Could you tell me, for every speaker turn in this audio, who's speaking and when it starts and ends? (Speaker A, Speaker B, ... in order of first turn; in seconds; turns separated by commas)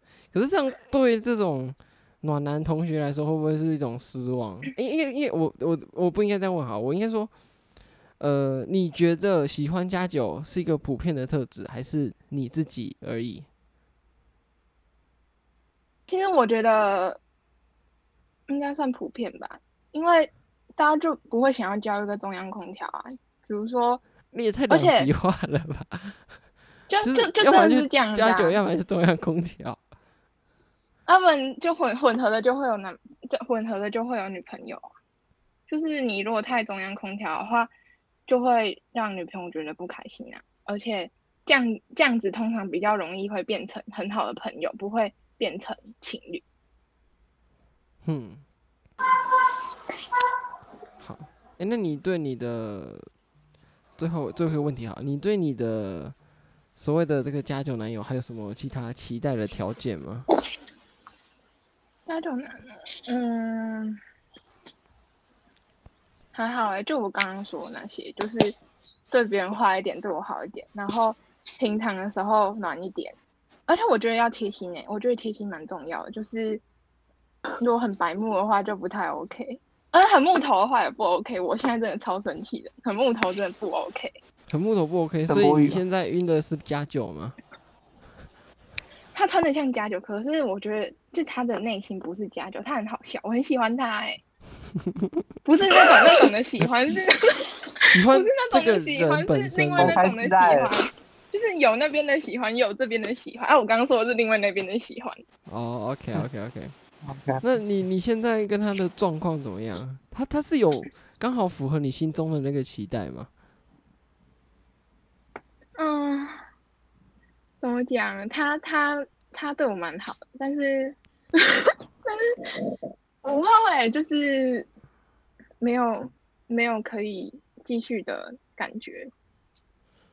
Speaker A: 0.3-7.3, Speaker A: 8.2-13.5, Speaker B: 16.1-17.2, Speaker B: 18.5-24.0, Speaker A: 24.3-26.2, Speaker B: 24.7-25.1, Speaker B: 26.9-28.6, Speaker A: 27.0-29.8, Speaker B: 31.1-34.8, Speaker B: 35.7-37.7, Speaker B: 38.3-46.4, Speaker A: 48.0-48.4, Speaker A: 51.0-53.1, Speaker A: 54.0-56.2, Speaker A: 56.8-60.3, Speaker B: 62.1-64.0, Speaker B: 66.3-68.6, Speaker B: 69.1-73.2, Speaker B: 73.7-76.6, Speaker B: 77.6-84.1, Speaker A: 84.5-87.4, Speaker C: 85.3-85.8, Speaker B: 89.1-94.2, Speaker B: 95.4-105.2, Speaker A: 97.9-100.0, Speaker C: 99.8-100.7, Speaker A: 105.5-106.7, Speaker C: 107.0-107.4, Speaker A: 107.4-113.3, Speaker B: 115.8-116.4, Speaker B: 117.6-121.0, Speaker B: 121.6-122.3, Speaker B: 123.2-124.7, Speaker B: 125.6-129.1